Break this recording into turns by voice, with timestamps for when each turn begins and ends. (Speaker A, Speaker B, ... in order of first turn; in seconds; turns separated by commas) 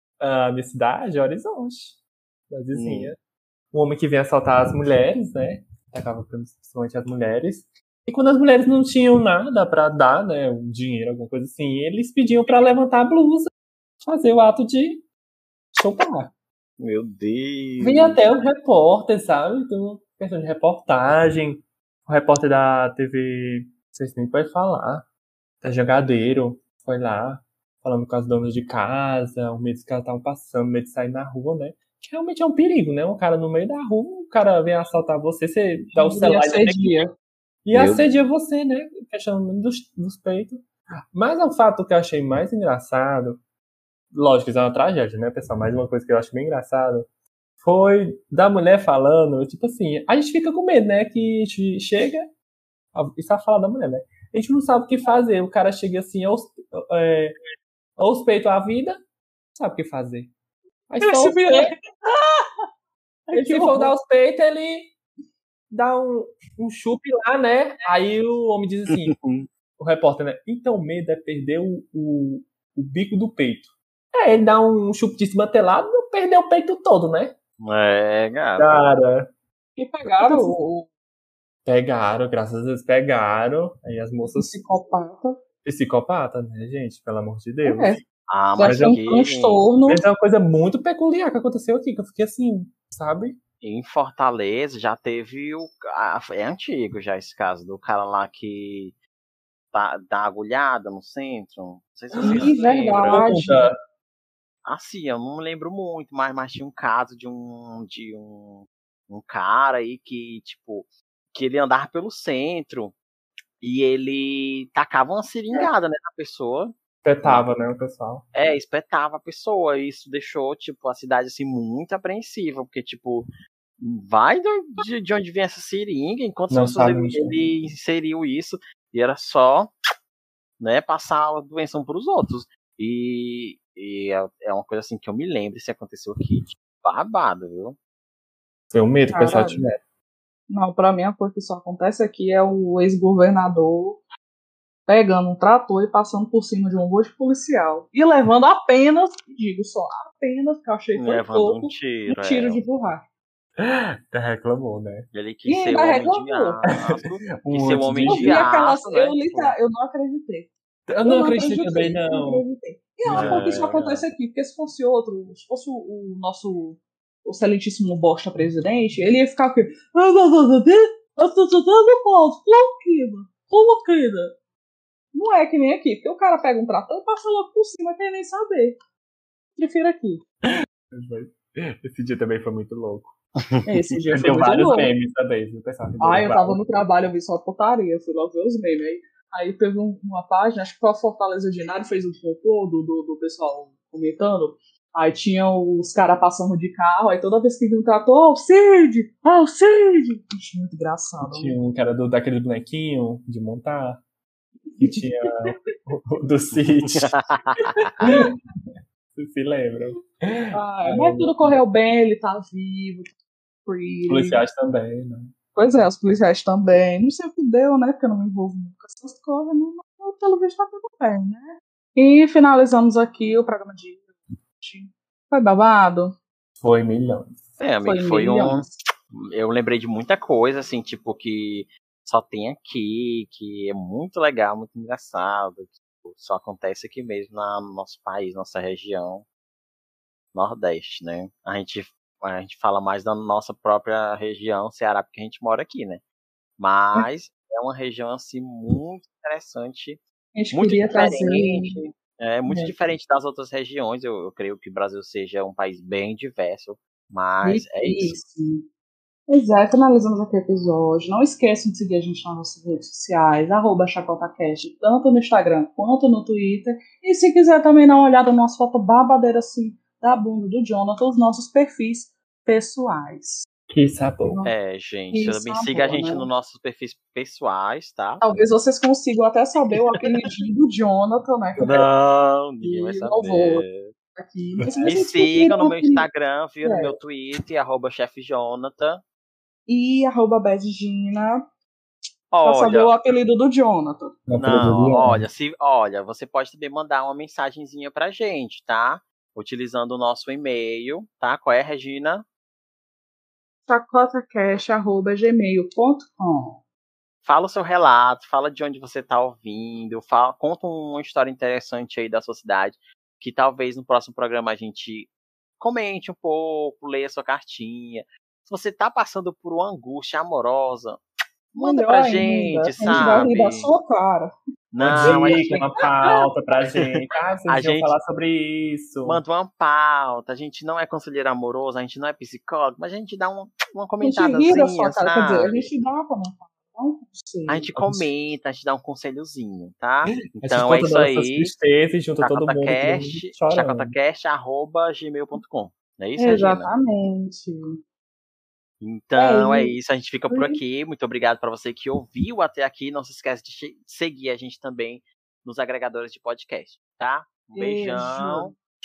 Speaker A: 0.2-2.0, Speaker A: 2.5-3.2, Speaker B: 2.8-3.1, Speaker A: 3.7-13.5, Speaker A: 14.0-15.0, Speaker A: 15.8-16.3, Speaker B: 16.8-18.2, Speaker A: 17.8-25.0, Speaker A: 25.6-37.1, Speaker C: 36.0-37.1, Speaker A: 37.6-40.6, Speaker B: 37.7-38.0, Speaker A: 41.1-43.4, Speaker A: 44.1-47.1, Speaker A: 47.6-52.3, Speaker A: 52.9-57.3, Speaker A: 58.0-59.0, Speaker A: 59.5-60.3, Speaker A: 60.9-61.8, Speaker C: 61.0-61.7, Speaker C: 63.3-63.9, Speaker A: 63.3-64.9, Speaker A: 65.7-69.2, Speaker B: 68.9-69.5, Speaker A: 69.8-77.4, Speaker B: 77.6-78.9, Speaker A: 78.6-79.3, Speaker C: 79.8-80.9, Speaker A: 80.2-80.6, Speaker A: 81.7-84.5, Speaker C: 84.3-85.4, Speaker A: 85.6-88.0, Speaker C: 87.7-88.0, Speaker B: 88.3-89.7, Speaker C: 88.6-90.0, Speaker A: 88.6-89.0, Speaker A: 89.9-93.4, Speaker B: 93.6-99.0, Speaker B: 99.7-103.3, Speaker A: 102.2-103.8, Speaker C: 102.2-103.7, Speaker B: 104.7-113.0, Speaker B: 113.6-117.5, Speaker A: 117.0-118.2, Speaker B: 118.3-123.3, Speaker B: 123.8-129.7, Speaker A: 126.5-127.3, Speaker B: 130.6-137.8, Speaker A: 138.7-139.8, Speaker C: 139.1-139.7, Speaker C: 140.5-144.0, Speaker C: 144.9-153.1, Speaker B: 151.0-152.6, Speaker A: 153.6-155.1, Speaker B: 155.1-159.6, Speaker C: 155.5-156.6, Speaker A: 156.7-158.4, Speaker C: 158.1-160.5, Speaker A: 160.9-162.4, Speaker C: 161.0-174.3, Speaker A: 163.0-163.7, Speaker B: 163.1-164.1, Speaker C: 175.1-178.8, Speaker C: 179.6-180.2, Speaker A: 180.9-183.2, Speaker C: 183.7-184.9, Speaker A: 184.1-186.8, Speaker C: 186.0-201.6, Speaker A: 201.2-204.0, Speaker C: 204.7-205.0, Speaker A: 204.8-207.1, Speaker B: 206.9-208.1, Speaker A: 207.7-208.3, Speaker C: 208.0-208.3, Speaker A: 209.1-211.6, Speaker C: 210.5-213.1, Speaker C: 213.7-214.4, Speaker A: 214.1-215.3, Speaker C: 215.6-226.2, Speaker A: 226.6-227.5, Speaker B: 227.6-239.3, Speaker C: 227.8-228.7, Speaker B: 240.3-246.0, Speaker B: 246.6-250.0, Speaker C: 250.4-251.8, Speaker B: 250.5-258.2, Speaker C: 252.5-252.7, Speaker C: 257.4-258.6, Speaker C: 259.3-273.5, Speaker A: 273.7-274.4, Speaker C: 274.3-274.5, Speaker B: 274.4-278.3, Speaker C: 275.1-276.3, Speaker C: 278.2-281.9, Speaker B: 281.6-283.9, Speaker C: 282.6-283.6, Speaker C: 284.2-286.1, Speaker A: 284.6-285.0, Speaker B: 284.8-289.0, Speaker C: 286.6-286.9, Speaker C: 289.7-291.4, Speaker B: 292.3-292.9, Speaker C: 292.4-294.2, Speaker A: 294.3-295.2, Speaker B: 294.4-302.2, Speaker C: 303.7-306.6, Speaker B: 307.2-321.0, Speaker B: 321.6-323.7, Speaker C: 321.6-324.3, Speaker A: 322.8-323.2, Speaker B: 324.7-325.7, Speaker A: 324.8-329.2, Speaker C: 325.0-326.2, Speaker B: 327.0-327.9, Speaker B: 329.1-335.7, Speaker C: 334.0-337.7, Speaker B: 337.5-341.5, Speaker A: 337.8-338.1, Speaker A: 340.3-343.9, Speaker B: 342.2-346.7, Speaker C: 346.2-347.8, Speaker B: 348.8-358.6, Speaker C: 349.2-349.8, Speaker C: 350.3-350.6, Speaker C: 357.5-358.5